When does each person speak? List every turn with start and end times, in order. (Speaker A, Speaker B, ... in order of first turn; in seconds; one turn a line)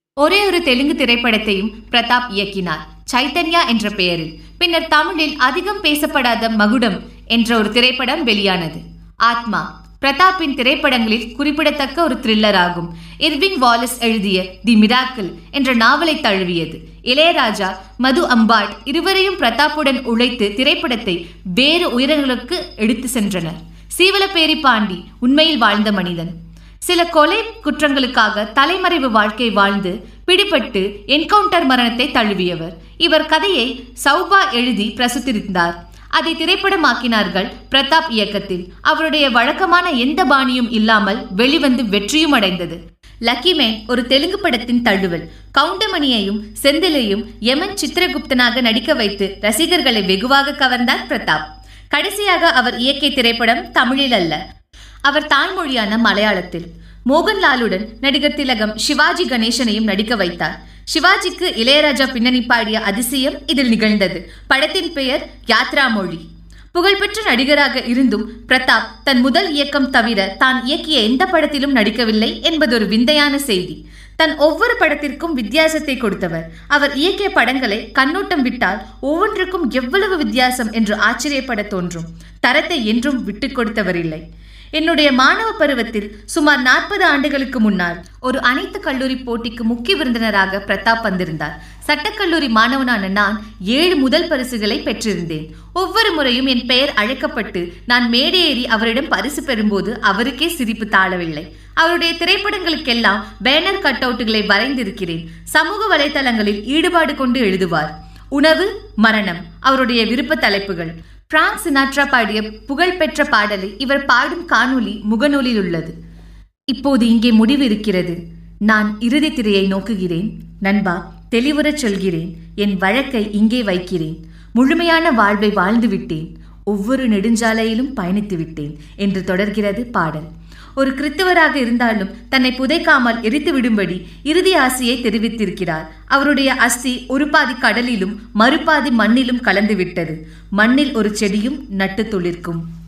Speaker A: 0.2-54.4
Speaker A: 55.0-84.2
Speaker A: 84.7-115.9
Speaker A: 116.7-142.6